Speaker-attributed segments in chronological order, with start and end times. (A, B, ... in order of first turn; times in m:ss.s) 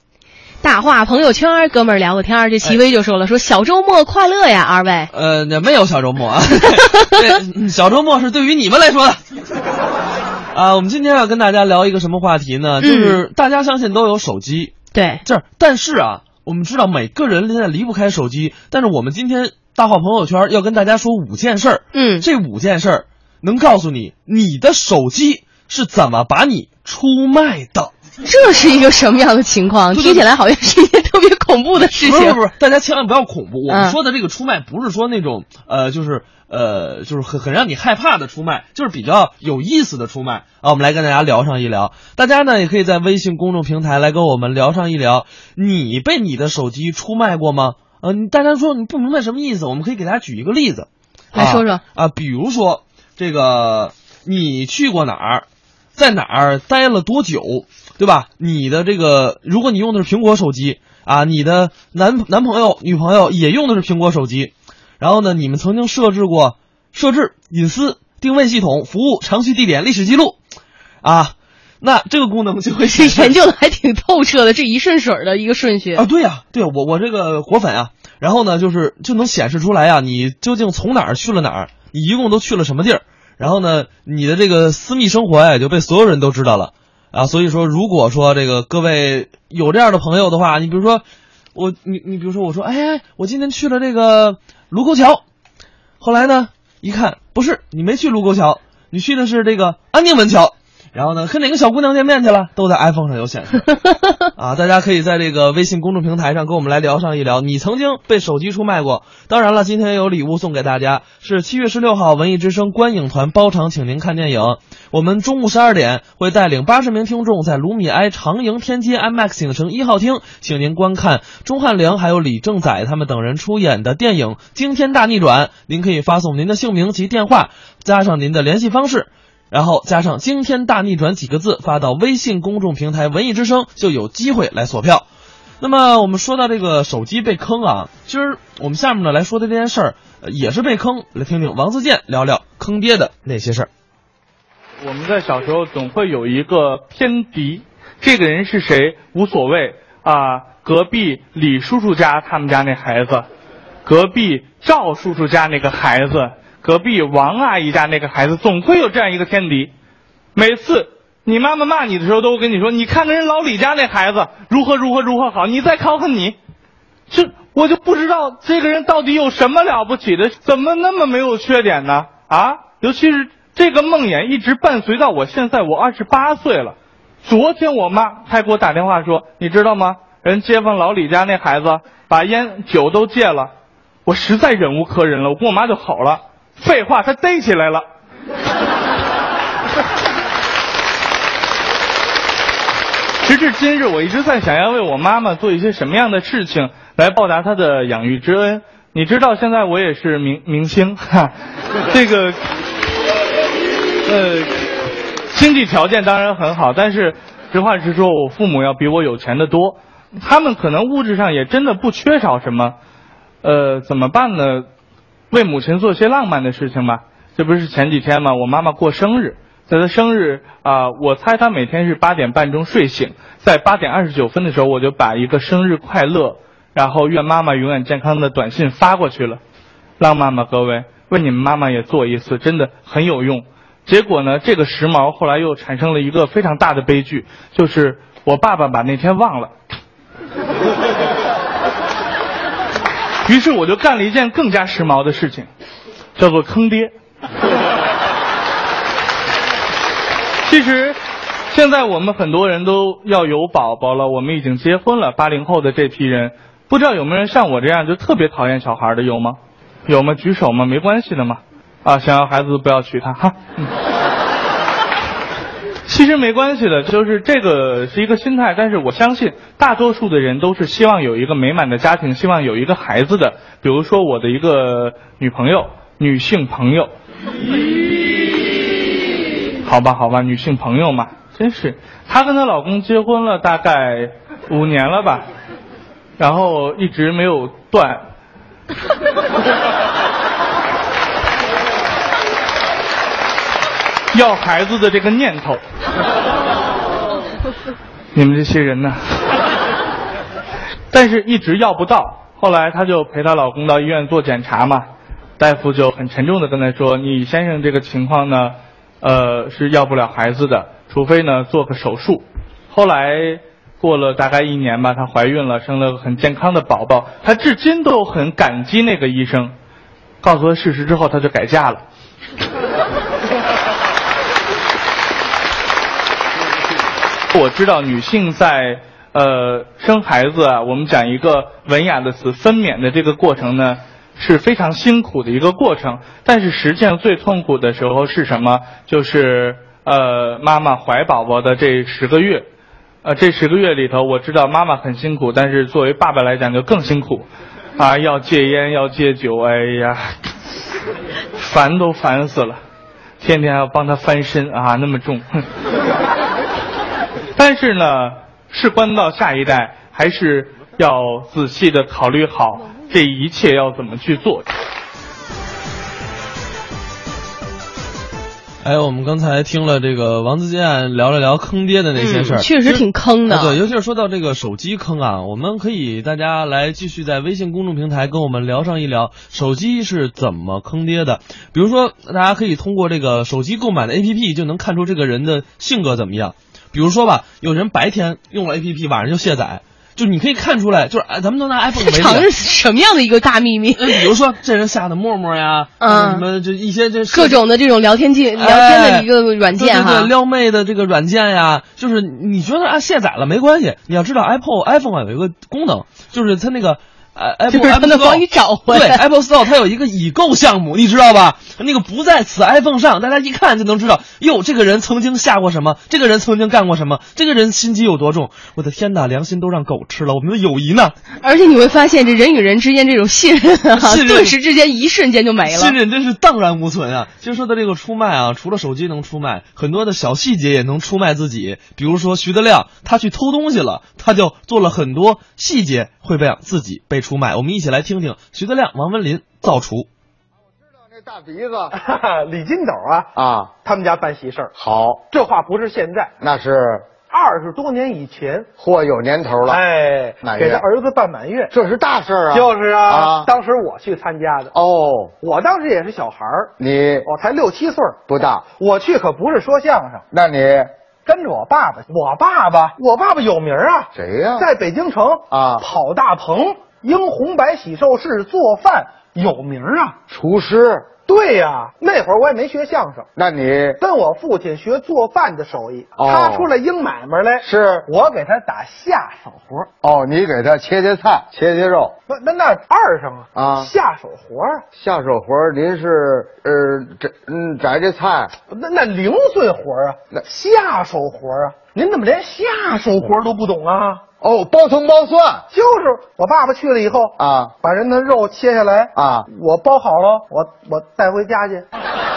0:00.6-0:05.1 A
0:05.1-0:09.2 B
0:06.7-0:07.3 A
0:10.5-0:27.9 B
0:12.8-0:13.2 A
0:14.9-0:15.2 A
0:21.9-0:22.2 A
0:28.2-0:32.4 A
0:29.9-0:30.3 B
0:31.8-0:55.4 B
0:33.7-0:34.0 A
0:51.3-0:51.8 A
0:56.0-1:10.4 B
1:11.0-1:13.4 B
1:12.9-1:16.0 A
1:16.0-1:31.0 B
1:31.6-1:35.2 B
1:36.0-1:43.7 B
1:44.4-2:15.0 B
2:15.6-2:23.7 B
2:24.8-2:33.2 C
2:33.8-2:39.7 C
2:40.4-2:46.4 C
2:47.1-3:03.5 C
3:04.1-3:07.8 C
3:13.2-3:21.3 C
3:21.9-3:22.4 C
3:24.1-3:32.8 C
3:33.4-3:34.7 C
3:35.3-3:49.4 C
3:50.0-3:59.5 C
4:03.2-4:05.5 C
4:06.2-4:06.9 C
4:10.4-4:11.0 C
4:11.5-4:23.7 C
4:25.9-4:36.9 C
4:39.6-4:45.2 C
4:46.2-4:48.0 C
4:54.1-4:55.6 C
4:58.1-4:59.4 C
5:00.9-5:04.9 C
5:05.4-5:19.6 C
5:20.2-5:21.8 C
5:27.3-5:42.5 C
5:43.0-5:50.2 C
5:51.4-5:52.6 C
5:53.2-5:55.4 C
5:57.4-6:04.5 C
6:08.6-6:32.3 B
6:12.0-6:13.6 A
6:31.8-6:34.1 A
6:33.8-6:37.4 B
6:35.8-6:36.2 A
6:37.1-6:40.1 A
6:38.4-7:01.0 B
6:47.5-6:49.0 A
7:01.2-7:05.8 A
7:03.8-7:04.4 B
7:05.4-7:19.9 B
7:20.6-7:21.8 D
7:21.7-7:23.1 E
7:23.2-7:23.5 D
7:23.6-7:24.5 E
7:24.6-7:25.0 D
7:25.1-7:26.1 E
7:26.2-7:26.9 D
7:27.1-7:28.5 E
7:28.6-7:29.6 D
7:29.5-7:31.5 E
7:30.2-7:30.6 D
7:31.5-7:33.3 D
7:32.3-7:34.5 E
7:34.5-7:35.1 D
7:35.2-7:36.5 E
7:36.6-7:37.1 D
7:37.0-7:38.0 E
7:38.1-7:38.4 D
7:38.6-7:40.0 E
7:40.1-7:40.7 D
7:41.1-7:50.0 E
7:43.9-7:44.5 D
7:45.3-7:45.6 D
7:50.1-7:50.9 D
7:51.1-7:53.1 E
7:53.2-7:53.8 D
7:53.8-7:59.7 E
7:56.0-7:56.5 D
7:57.4-7:57.9 D
7:59.8-8:01.9 D
8:02.1-8:04.6 E
8:03.4-8:03.7 D
8:04.8-8:08.3 D
8:08.5-8:14.0 E
8:14.2-8:15.5 D
8:15.5-8:21.7 E
8:17.2-8:17.5 D
8:18.9-8:19.3 D